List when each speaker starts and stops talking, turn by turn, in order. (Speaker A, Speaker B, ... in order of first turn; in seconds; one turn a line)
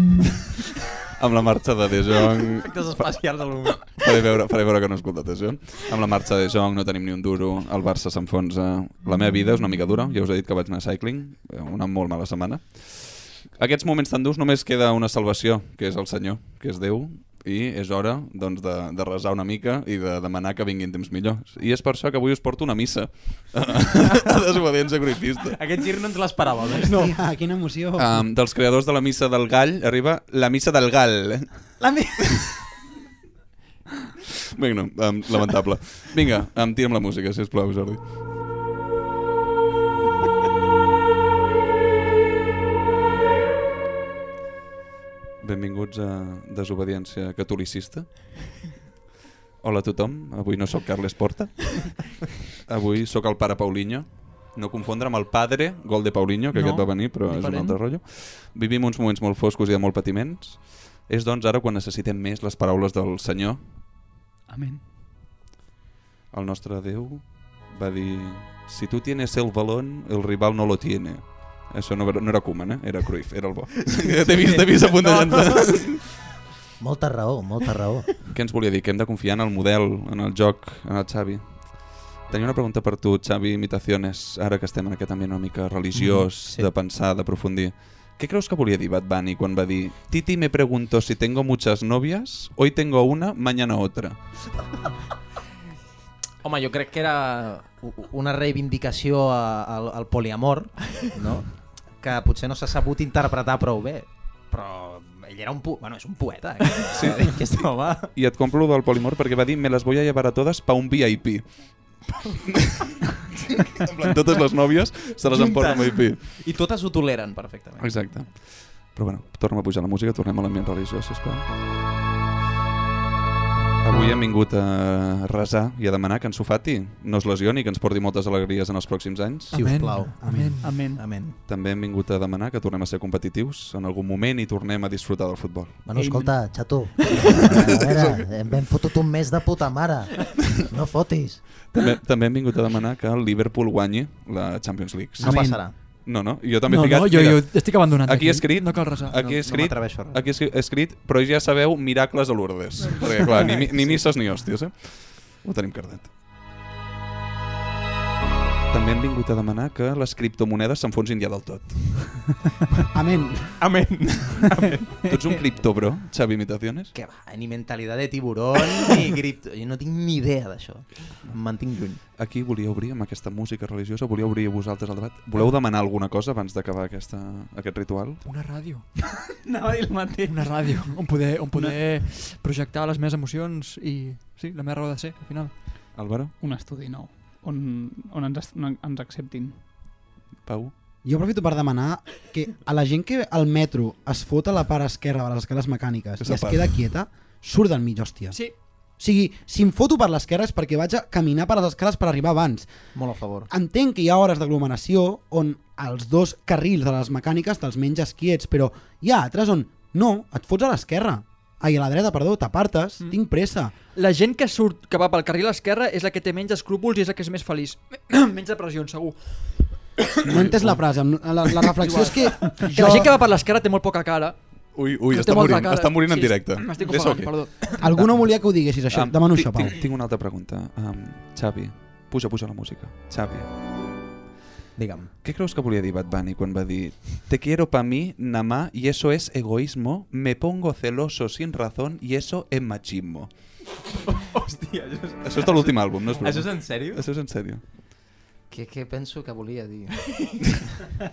Speaker A: 1.2-3.0
Speaker B: 2.6-4.0
Speaker A: 3.9-25.6
Speaker B: 25.5-27.1
Speaker C: 26.9-28.1
Speaker A: 27.9-32.2
Speaker A: 34.5-38.1
Speaker A: 45.4-48.6
Speaker A: 49.6-63.6
Speaker D: 56.5-57.8
Speaker E: 64.5-64.8
Speaker A: 66.3-76.1
Speaker E: 74.4-74.6
Speaker F: 76.8-78.1
Speaker A: 78.2-94.2
Speaker B: 85.9-86.7
Speaker B: 96.4-108.1
Speaker A: 106.9-107.4
Speaker A: 108.0-111.7
Speaker A: 112.5-112.9
Speaker A: 113.5-116.2
Speaker B: 115.2-118.3
Speaker A: 117.8-121.4
Speaker A: 123.8-129.6
Speaker D: 129.5-130.7
Speaker B: 129.5-131.4
Speaker C: 130.2-130.6
Speaker E: 130.6-131.1
Speaker A: 131.4-135.9
Speaker F: 135.8-141.4
Speaker E: 135.9-137.4
Speaker A: 140.4-140.7
Speaker A: 141.6-156.1
Speaker C: 145.2-145.6
Speaker B: 145.2-145.7
Speaker D: 146.7-149.1
Speaker B: 149.1-150.2
Speaker B: 152.9-153.9
Speaker A: 158.7-162.3
Speaker C: 162.9-163.6
Speaker B: 163.6-164.8
Speaker A: 165.1-166.9
Speaker E: 165.1-165.3
Speaker B: 166.9-172.0
Speaker A: 172.0-178.2
Speaker D: 178.2-178.8
Speaker E: 179.3-181.0
Speaker D: 180.3-185.6
Speaker A: 185.9-186.3
Speaker E: 186.4-189.6
Speaker A: 190.4-190.7
Speaker C: 191.0-198.4
Speaker A: 196.2-196.8
Speaker C: 199.0-202.7
Speaker B: 202.9-203.5
Speaker C: 203.5-213.7
Speaker D: 213.9-219.2
Speaker A: 220.2-220.8
Speaker C: 220.2-223.1
Speaker D: 221.8-224.4
Speaker A: 224.7-228.3
Speaker D: 225.1-227.8
Speaker C: 227.8-229.8
Speaker A: 228.9-233.5
Speaker B: 234.8-235.1
Speaker A: 235.2-243.3
Speaker B: 244.1-247.0
Speaker A: 245.2-247.6
Speaker B: 248.5-250.8